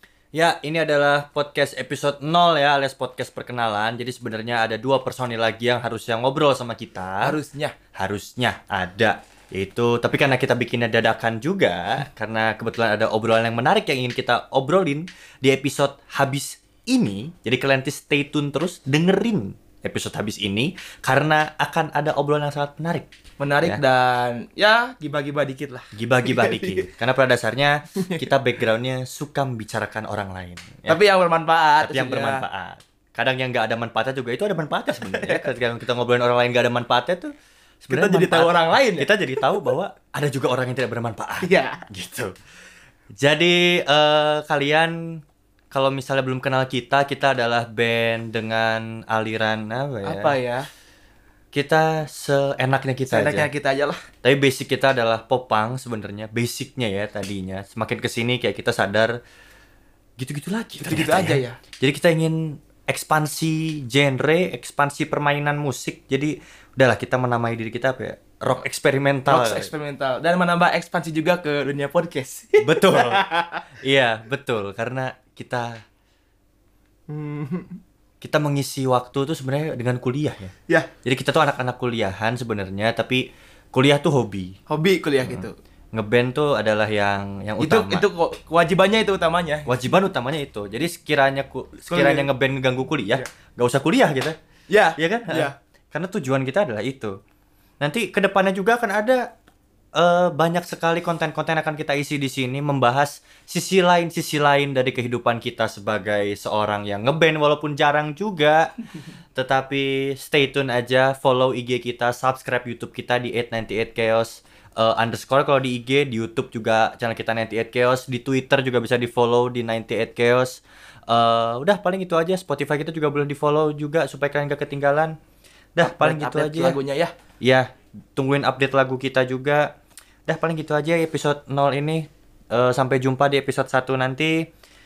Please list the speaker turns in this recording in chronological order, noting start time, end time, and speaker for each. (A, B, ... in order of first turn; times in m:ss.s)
0:00.3-0:07.4 A
0:07.2-0:07.7 B
0:07.9-0:23.1 A
0:23.4-0:26.9 B
0:25.9-0:31.0 A
0:30.9-0:32.4 B
0:31.8-0:42.3 A
0:34.9-0:35.5 B
0:37.9-0:39.1 B
0:41.4-0:41.8 B
0:43.2-0:45.2 A
0:45.7-0:50.3 A
0:50.0-0:50.7 B
0:51.5-0:53.5 A
0:53.1-0:54.0 B
0:54.2-0:59.1 A
1:00.2-1:09.7 A
1:00.8-1:01.6 B
1:09.3-1:13.6 B
1:12.6-1:15.8 A
1:17.1-1:17.8 B
1:18.2-1:24.6 A
1:24.7-1:25.6 B
1:25.2-1:28.0 A
1:27.6-1:29.8 B
1:29.6-1:34.4 A
1:31.9-1:32.3 B
1:34.7-1:35.5 B
1:35.0-1:37.2 A
1:37.8-1:39.3 A
1:40.0-1:48.7 A
1:49.3-2:05.2 A
2:05.7-2:06.8 A
2:05.8-2:07.1 B
2:07.4-2:09.7 A
2:10.3-2:14.5 A